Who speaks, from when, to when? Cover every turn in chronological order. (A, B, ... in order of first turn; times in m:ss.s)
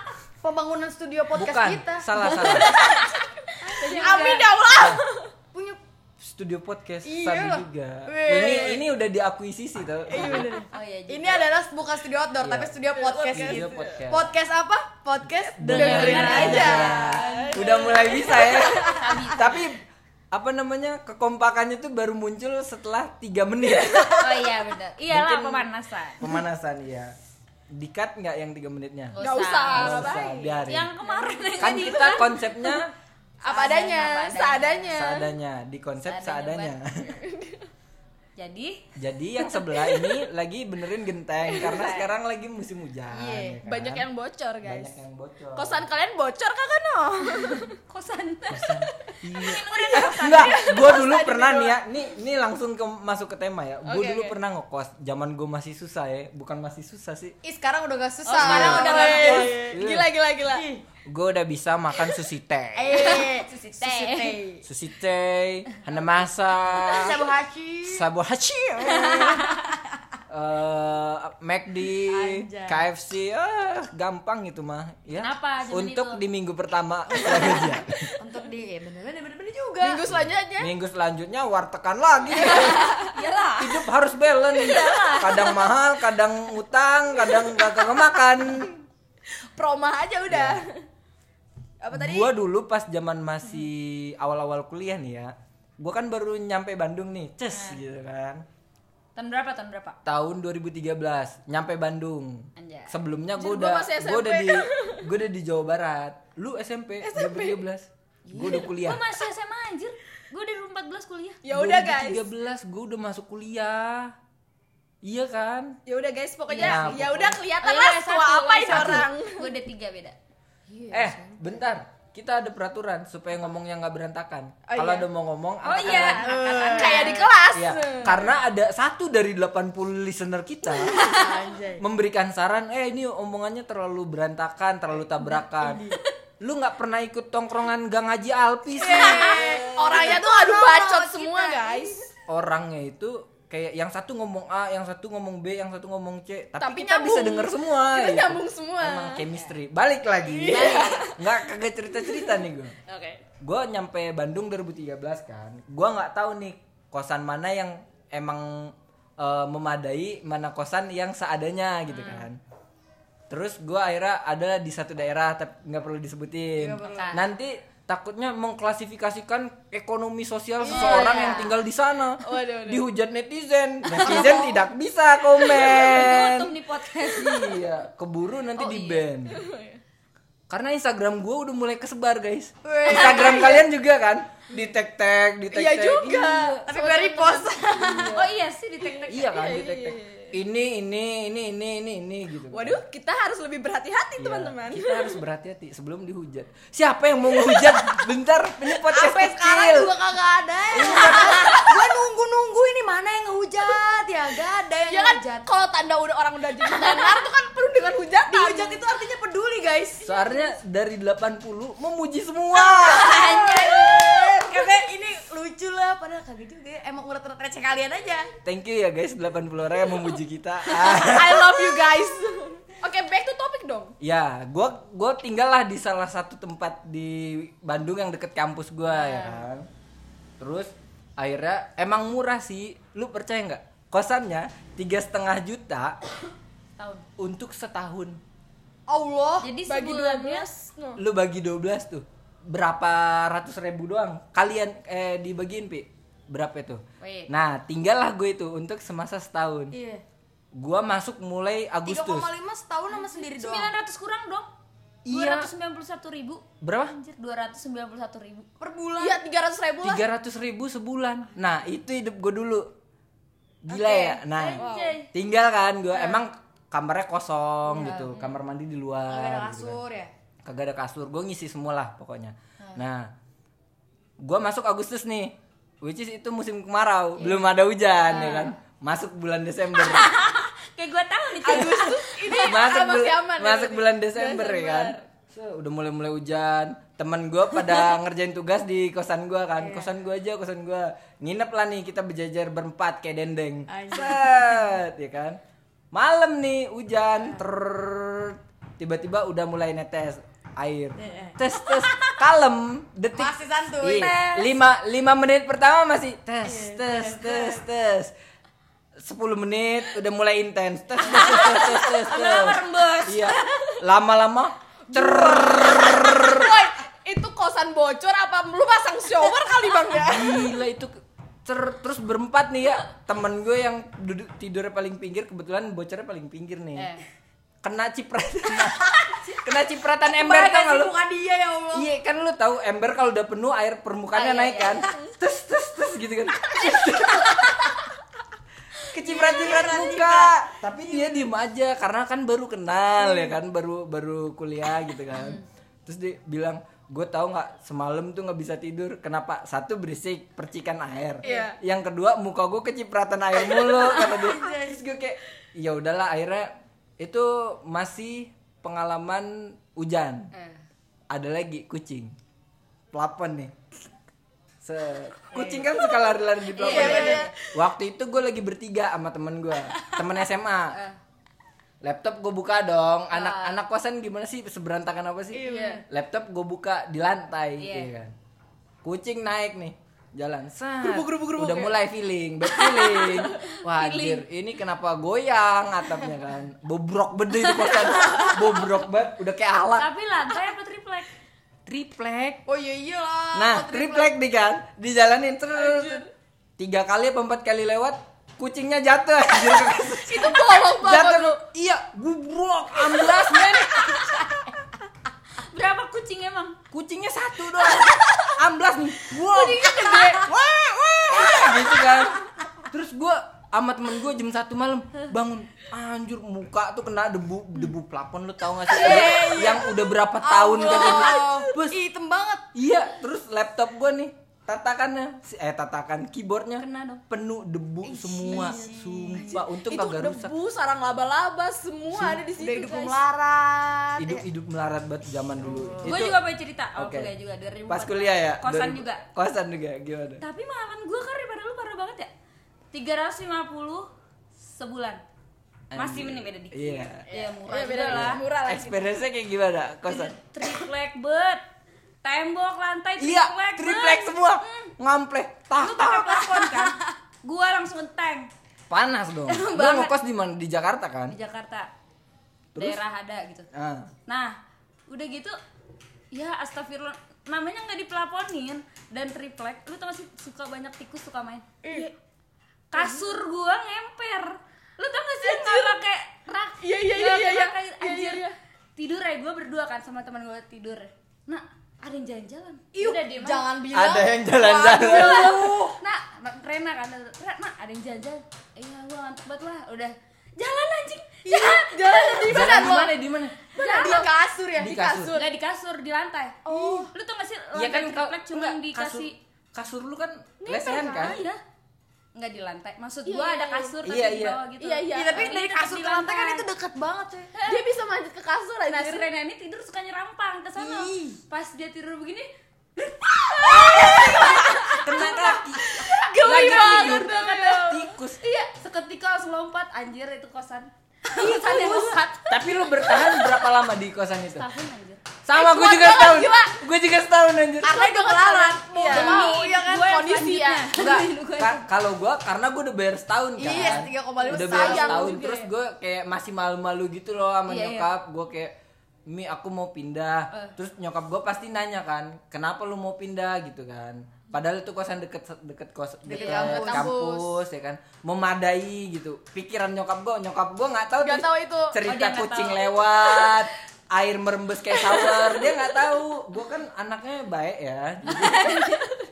0:00.4-0:02.4 A
0:01.4-0:02.8 B
0:02.4-0:04.6 C
0:02.5-0:03.1 D
0:03.6-0:04.3 A
0:03.8-0:05.3 D
0:04.8-0:05.0 B
0:05.5-0:05.8 A
0:06.2-0:10.5 B
0:07.0-0:08.8 A
0:08.3-0:08.8 D
0:10.1-0:17.6 A
0:10.2-0:10.7 D
0:10.2-0:11.4 C
0:12.4-0:12.8 B
0:12.9-0:14.0 D
0:13.3-0:14.3 B
0:15.4-0:24.5 B
0:15.7-0:17.7 C
0:15.7-0:18.6 D
0:18.2-0:19.3 A
0:18.9-0:19.7 C
0:24.2-0:26.4 C
0:25.1-0:27.2 B
0:27.7-0:29.2 B
0:29.1-0:32.8 C
0:29.2-0:32.1 D
0:29.7-0:30.9 B
0:31.6-0:32.9 B
0:33.4-0:35.3 D
0:33.4-0:35.0 C
0:34.9-0:37.2 B
0:36.0-0:36.8 C
0:37.1-0:37.7 D
0:38.4-0:38.9 C
0:39.0-0:44.1 B
0:41.4-0:42.1 D
0:43.1-0:43.6 A
0:43.6-0:45.0 D
0:44.6-0:45.8 B
0:45.6-0:47.8 D
0:47.2-0:51.0 C
0:48.5-0:57.4 B
0:49.7-0:51.8 D
0:53.9-0:54.4 D
0:57.4-0:59.5 A
0:58.3-0:59.5 C
0:58.4-1:00.1 B
0:58.4-1:00.6 D
1:00.5-1:00.8 A
1:01.1-1:03.0 B
1:02.8-1:04.6 A
1:03.0-1:04.4 C
1:03.0-1:03.4 D
1:04.1-1:04.4 D
1:04.6-1:07.2 B
1:06.8-1:08.0 A
1:07.9-1:09.5 B
1:10.3-1:18.0 B
1:12.1-1:12.8 A
1:15.2-1:16.2 C
1:17.2-1:18.2 D
1:18.2-1:20.0 A
1:19.8-1:20.7 D
1:20.1-1:22.9 B
1:22.3-1:23.8 C
1:22.4-1:23.1 D
1:23.6-1:28.7 B
1:24.5-1:25.6 C
1:25.0-1:25.5 D
1:29.5-1:30.9 D
1:30.3-1:30.6 B
1:31.8-1:32.3 D
1:31.9-1:38.4 B
1:37.5-1:37.8 C
1:39.2-1:40.0 C
1:40.0-1:49.0 B
1:42.6-1:43.0 C
1:43.4-1:45.1 D
1:47.0-1:47.6 D
1:48.3-1:51.4 C
1:51.4-1:52.2 D
1:51.5-1:54.2 B
1:55.0-1:55.8 B
1:55.9-1:59.5 D
1:56.5-1:57.1 C
1:56.6-1:57.4 B
1:57.6-2:00.2 C
1:58.7-1:59.1 B
2:00.7-2:01.4 A
2:00.9-2:06.3 B
2:04.7-2:05.1 D
2:05.6-2:07.3 C
2:05.7-2:08.4 D
2:06.3-2:07.2 A
2:07.5-2:11.2 B
2:10.8-2:11.5 D
2:11.0-2:11.8 A
2:11.8-2:15.8 B
2:15.6-2:16.0 A
2:16.4-2:19.6 B
2:18.7-2:22.1 D
2:18.8-2:22.1 A
2:22.3-2:32.8 B
2:26.6-2:29.3 D
2:30.2-2:31.3 D
2:30.5-2:31.0 C
2:32.1-2:33.2 D
2:33.4-2:42.4 B
2:41.9-2:42.3 C
2:43.3-2:59.4 B
2:46.6-2:47.2 A
2:46.8-2:47.2 C
2:50.6-2:51.5 D
2:50.7-2:51.5 C
2:52.2-2:52.8 D
2:53.9-2:54.5 D
2:54.0-2:54.6 A
2:55.5-2:57.7 C
2:58.6-2:59.0 C
2:59.3-2:59.8 D
3:00.5-3:06.7 B
3:02.6-3:03.6 A
3:02.8-3:03.6 D
3:05.5-3:08.2 D
3:06.7-3:08.3 A
3:08.0-3:09.4 C
3:08.8-3:10.3 D
3:09.1-3:12.8 B
3:12.5-3:15.2 D
3:14.2-3:19.9 B
3:18.9-3:25.5 A
3:20.7-3:21.6 B
3:20.9-3:21.6 D
3:24.9-3:28.8 D
3:26.6-3:27.2 A
3:28.3-3:30.2 A
3:30.0-3:33.4 B
3:32.7-3:38.3 A
3:32.9-3:34.6 D
3:32.9-3:34.0 C
3:38.4-3:41.8 B
3:40.7-3:43.9 D
3:44.0-3:49.7 B
3:49.0-3:49.4 C
3:50.4-3:56.0 B
3:56.8-3:57.1 C
3:57.2-3:58.2 B
3:58.9-3:59.4 A
3:59.4-4:00.5 C
3:59.6-4:01.0 D
4:01.0-4:09.7 B
4:07.0-4:07.3 C
4:09.7-4:10.0 A
4:10.5-4:12.3 B
4:11.8-4:13.7 A
4:12.9-4:14.5 C
4:15.0-4:15.5 B
4:15.1-4:18.5 C
4:16.6-4:17.0 B
4:18.6-4:19.2 A
4:19.0-4:20.1 D
4:19.8-4:22.7 B
4:23.6-4:24.6 B
4:23.7-4:25.0 D
4:24.3-4:25.1 C
4:25.1-4:29.8 B
4:27.7-4:28.1 A
4:27.8-4:28.4 C
4:29.1-4:30.1 A
4:30.4-4:33.1 B
4:34.2-4:40.1 B
4:38.1-4:38.5 C
4:39.8-4:42.4 C
4:41.4-4:45.0 D
4:42.4-4:55.4 B
4:49.6-4:49.9 A
4:53.7-4:54.7 A
4:55.9-5:08.1 B
5:01.0-5:02.0 A
5:03.2-5:04.5 A
5:06.4-5:07.6 A
5:09.0-5:16.6 B
5:11.0-5:13.7 C
5:14.9-5:20.5 D
5:20.0-5:26.9 B
5:26.8-5:27.0 C
5:27.6-5:31.0 B
5:28.6-5:29.4 A
5:30.1-5:31.9 A
5:31.7-5:37.7 B
5:34.1-5:35.0 C
5:37.0-5:37.5 C
5:38.9-6:00.3 B
5:39.0-5:40.5 A
5:51.2-5:51.6 D
5:51.2-5:51.5 A
5:53.8-5:54.8 A
6:00.3-6:00.6 C
6:01.1-6:02.1 B
6:02.9-6:03.5 B
6:04.6-6:10.8 B
6:06.6-6:07.3 D
6:06.6-6:07.3 C
6:06.6-6:07.3 A
6:10.7-6:11.0 C
6:11.8-6:18.2 B
6:13.1-6:13.6 C
6:15.4-6:15.8 D
6:15.4-6:15.8 A
6:15.5-6:15.8 C
6:17.6-6:17.9 C
6:18.8-6:29.9 B
6:20.8-6:21.8 D
6:22.6-6:23.5 D
6:23.6-6:24.2 C
6:29.8-6:31.1 C
6:31.7-6:32.4 B
6:32.5-6:34.1 A
6:33.3-6:36.1 B
6:35.6-6:36.0 D
6:36.6-6:44.5 B
6:40.1-6:41.4 D
6:45.4-6:46.6 C
6:46.7-6:50.2 B
6:49.3-6:50.3 C
6:49.3-6:51.9 D
6:51.1-7:01.8 B
6:58.7-6:59.6 D
6:58.7-7:02.5 A
7:02.5-7:10.3 B
7:06.6-7:07.0 C
7:07.8-7:09.4 A
7:09.3-7:13.0 D
7:11.9-7:12.2 B
7:12.3-7:14.2 A
7:14.0-7:16.2 B
7:15.4-7:15.9 A
7:15.8-7:19.0 C
7:16.8-7:17.1 B
7:17.7-7:20.2 B
7:20.2-7:22.1 C
7:22.7-7:25.0 C
7:25.7-7:27.1 B
7:25.8-7:28.2 C
7:27.1-7:29.0 D
7:27.9-7:30.2 B
7:29.9-7:31.4 C
7:32.0-7:34.7 C
7:33.0-7:36.6 B
7:35.6-7:38.3 C
7:38.7-7:41.2 B
7:39.3-7:39.9 C
7:41.1-7:41.7 C
7:42.6-7:42.8 B
7:42.6-7:43.5 C
7:43.5-7:43.9 B
7:44.1-7:45.4 C
7:46.1-7:51.9 C
7:51.6-7:51.9 D
7:52.7-8:03.5 C
7:52.8-7:53.0 D
7:55.2-7:55.8 D
7:56.6-7:58.4 D
8:02.7-8:05.4 A
8:03.7-8:05.8 B
8:04.5-8:12.8 C
8:11.3-8:12.9 D
8:12.3-8:13.4 B
8:12.3-8:12.9 A
8:13.6-8:14.1 C
8:13.6-8:15.2 A
8:13.6-8:14.1 D
8:14.6-8:15.1 B
8:15.1-8:19.2 C
8:16.5-8:16.9 A
8:16.5-8:16.9 D
8:17.5-8:21.2 B
8:20.4-8:21.2 D
8:20.7-8:21.4 C
8:22.2-8:26.5 C
8:23.0-8:23.8 D
8:23.8-8:24.4 B
8:24.6-8:25.4 D
8:24.9-8:27.3 A
8:27.3-8:27.6 C
8:27.5-8:29.1 D
8:28.7-8:35.3 C
8:30.6-8:31.2 A
8:33.3-8:37.8 D
8:33.8-8:34.3 A
8:34.7-8:38.2 B
8:36.2-8:42.3 C
8:41.1-8:42.1 D
8:42.3-8:44.5 B
8:44.3-8:45.0 C
8:45.2-8:47.8 B
8:45.3-8:46.6 D
8:47.6-8:49.5 A
8:47.8-8:50.8 D
8:48.8-8:51.6 C
8:50.8-8:58.6 B
8:53.4-8:55.2 A
8:53.5-8:55.5 D
8:57.5-8:57.9 C
8:59.1-9:18.6 B
9:06.1-9:07.1 A
9:06.1-9:07.2 D
9:06.1-9:06.9 C
9:11.0-9:11.8 D
9:11.8-9:13.4 C
9:18.1-9:18.9 C